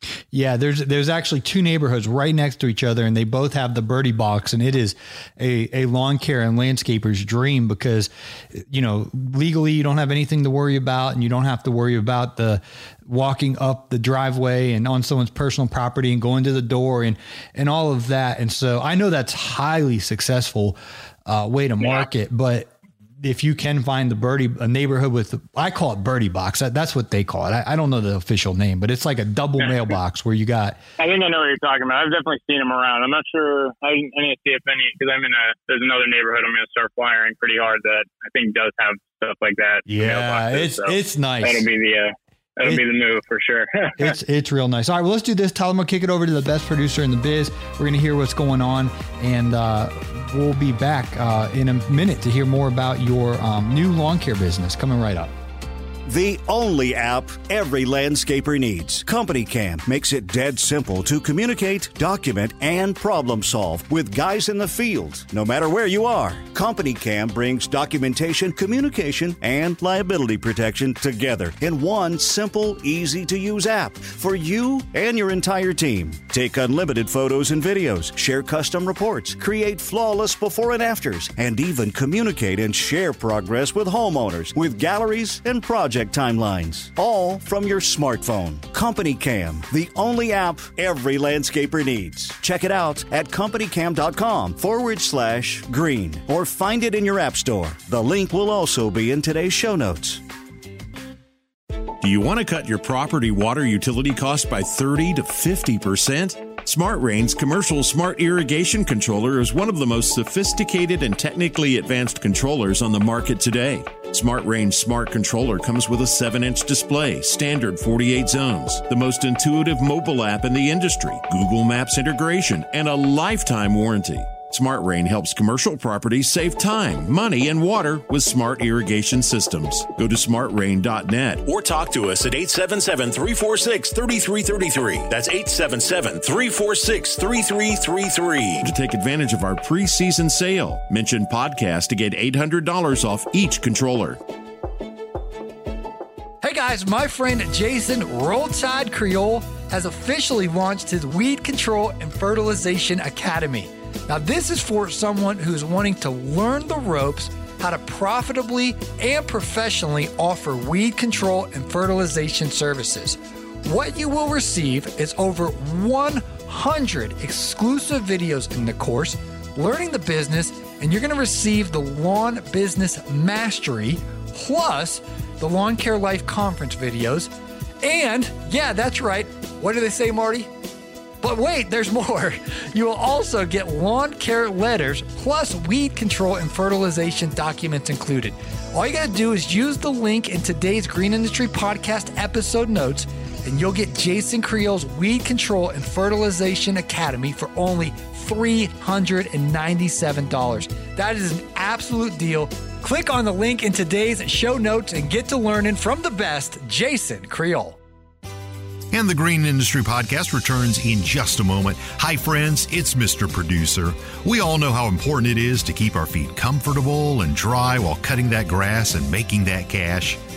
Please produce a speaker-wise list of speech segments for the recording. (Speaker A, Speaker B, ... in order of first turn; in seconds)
Speaker A: 0.3-30.8, 39.9-41.7, 44.0-55.3, 146.4-177.3, 177.8-180.5, 181.2-207.8
Speaker B: 21.8-22.1, 31.0-44.1
Speaker C: 56.1-100.2
Speaker D: 102.0-131.7, 138.4-144.2
Speaker E: 131.6-138.5
Speaker F: 208.9-220.2